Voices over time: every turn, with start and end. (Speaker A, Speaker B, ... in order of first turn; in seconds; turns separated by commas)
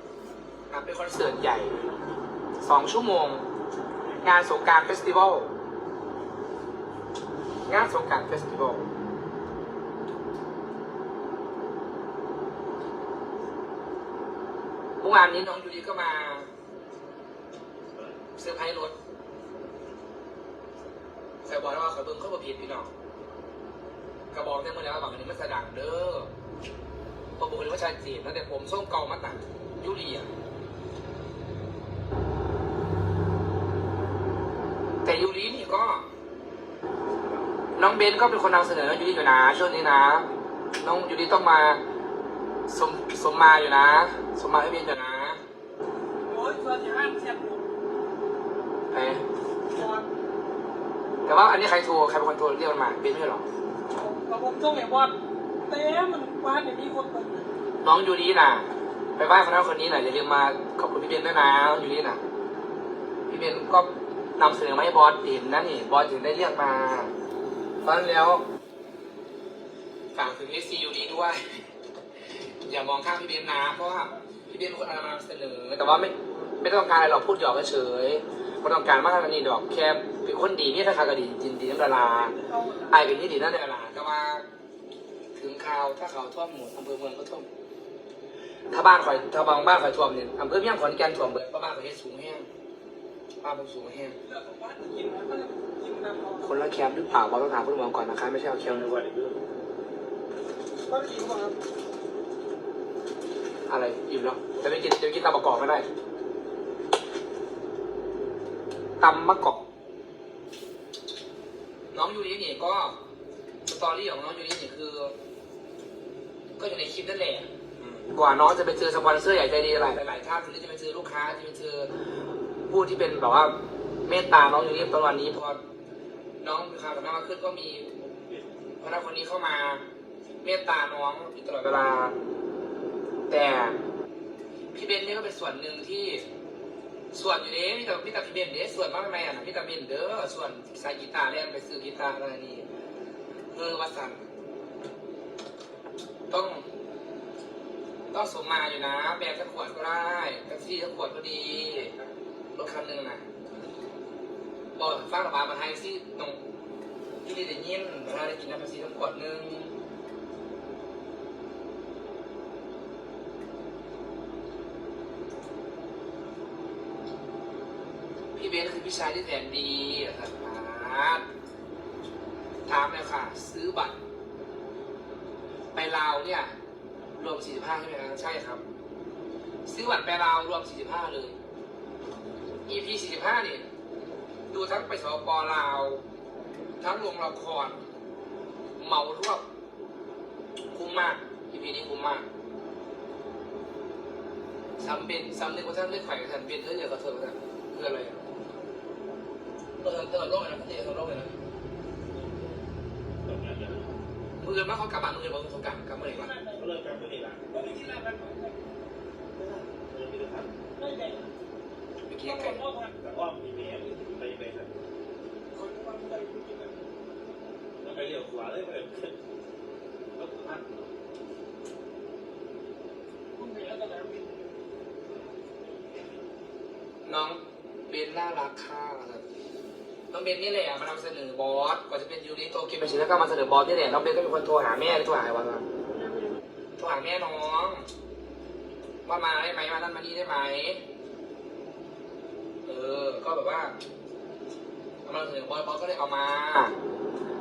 Speaker A: 0.7-1.8, Speaker B: 1.7-2.1, Speaker A: 2.6-3.5, Speaker A: 4.2-5.5, Speaker A: 7.7-8.9, Speaker A: 15.0-16.5, Speaker B: 17.9-18.2, Speaker A: 18.4-18.9, Speaker A: 21.4-22.9, Speaker A: 24.3-26.3, Speaker A: 27.4-30.3, Speaker A: 35.0-36.1, Speaker A: 37.7-41.8, Speaker A: 42.7-45.4, Speaker C: 46.2-47.7, Speaker A: 48.9-49.2, Speaker C: 49.7-50.1, Speaker A: 51.2-53.5, Speaker C: 53.9-57.5, Speaker A: 57.8-62.2, Speaker A: 63.3-67.1, Speaker A: 67.8-68.5, Speaker A: 70.1-71.4, Speaker A: 72.6-82.3, Speaker C: 81.9-83.3, Speaker A: 82.9-84.5, Speaker A: 85.3-87.5, Speaker A: 88.7-92.5, Speaker A: 93.4-94.2, Speaker C: 94.2-96.7, Speaker A: 96.4-98.9, Speaker B: 98.6-99.4, Speaker C: 100.9-101.6, Speaker A: 103.7-105.9, Speaker A: 109.0-109.6, Speaker A: 111.9-113.0, Speaker A: 113.7-115.2, Speaker A: 116.6-122.1, Speaker A: 122.7-125.6, Speaker A: 126.4-128.1, Speaker A: 128.8-129.8, Speaker A: 130.4-132.2, Speaker A: 133.3-133.8, Speaker A: 134.7-136.3, Speaker A: 137.1-142.7, Speaker A: 143.5-144.3, Speaker A: 146.3-146.7, Speaker A: 148.1-152.0, Speaker A: 152.5-153.2, Speaker A: 154.8-156.4, Speaker A: 157.2-159.7, Speaker A: 168.4-171.3, Speaker A: 172.7-174.0, Speaker A: 175.7-176.6, Speaker A: 177.2-178.6, Speaker A: 179.7-181.4, Speaker A: 182.7-183.7, Speaker A: 184.5-186.0, Speaker A: 186.8-187.8, Speaker A: 188.8-189.4, Speaker A: 190.7-192.3, Speaker A: 194.8-198.2, Speaker A: 199.8-201.3, Speaker B: 203.2-204.1, Speaker A: 204.4-206.3, Speaker C: 206.0-206.7, Speaker B: 206.6-207.8, Speaker C: 207.5-208.7, Speaker C: 209.4-209.7, Speaker B: 209.9-210.6, Speaker C: 210.8-211.3, Speaker A: 212.1-212.6, Speaker C: 212.2-213.0, Speaker B: 213.0-214.7, Speaker C: 215.5-216.9, Speaker B: 217.8-219.2, Speaker B: 220.2-220.9, Speaker C: 223.4-224.4, Speaker B: 225.4-226.1, Speaker A: 227.0-229.2, Speaker A: 230.1-235.7, Speaker C: 235.9-236.4, Speaker A: 236.8-237.9, Speaker A: 239.1-240.8, Speaker A: 242.7-243.8, Speaker A: 245.1-246.8